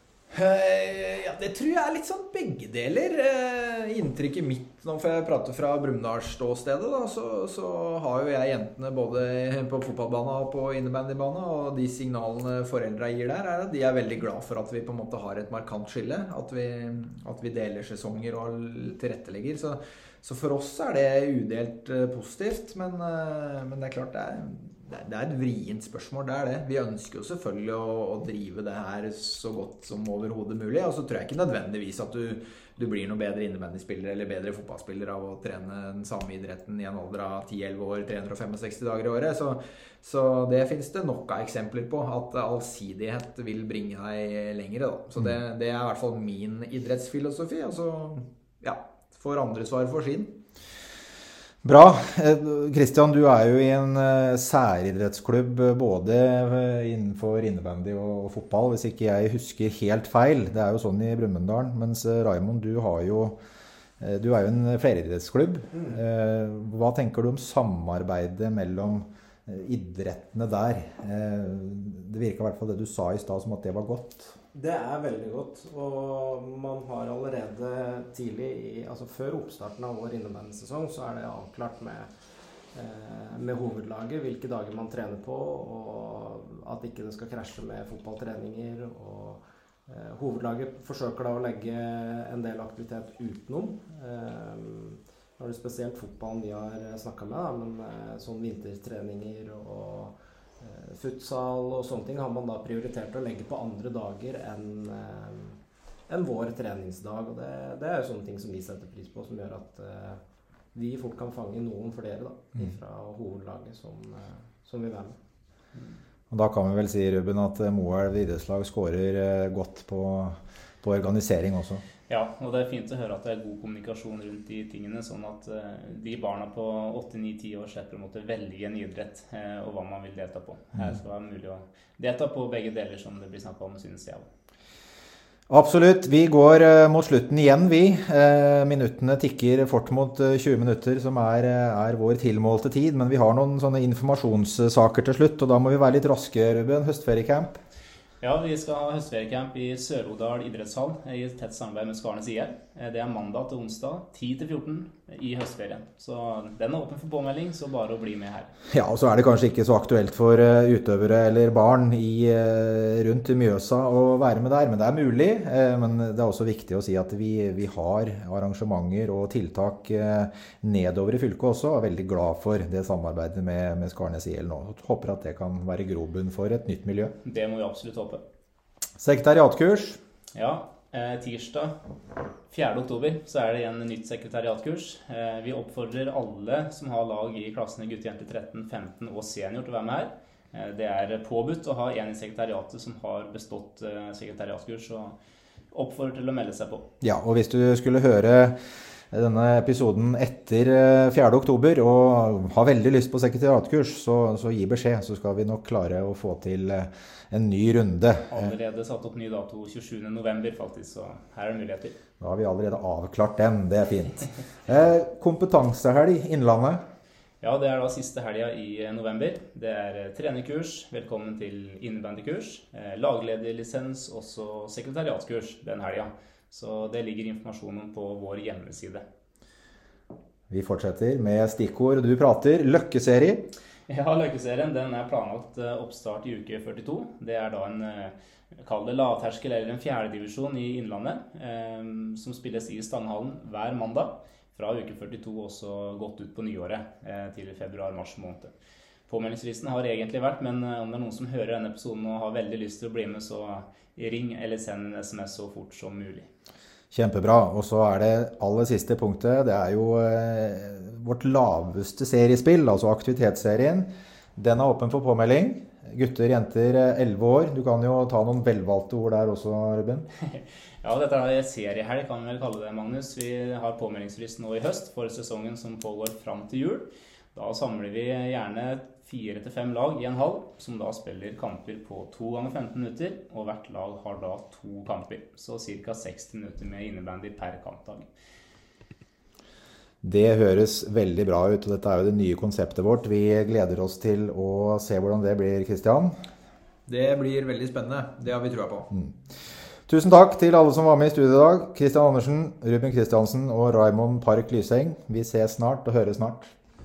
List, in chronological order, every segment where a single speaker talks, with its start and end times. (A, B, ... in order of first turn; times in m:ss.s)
0:00.3-0:50.3 A
0:51.6-1:03.4 B
1:04.0-1:14.3 B
1:14.5-1:22.1 C
1:22.7-1:50.2 C
1:50.7-1:55.2 C
1:56.3-2:01.8 B
2:02.1-2:14.2 D
2:15.5-2:27.6 B
2:28.2-2:38.5 D
2:38.7-2:57.1 B
2:57.2-2:58.2 D
2:59.0-3:00.0 B
3:00.3-3:01.7 D
3:02.5-3:15.2 D
3:15.7-3:16.8 D
3:17.0-3:18.6 B
3:19.1-3:28.5 B
3:28.3-3:31.9 D
3:32.2-3:36.8 B
3:37.4-3:49.0 D
3:50.5-3:53.4 B
3:53.9-4:08.5 D
4:09.1-4:16.3 D
4:16.9-4:30.0 B
4:30.3-4:48.0 D
4:50.0-4:56.1 B
4:56.9-4:58.9 A
4:59.9-5:06.5 B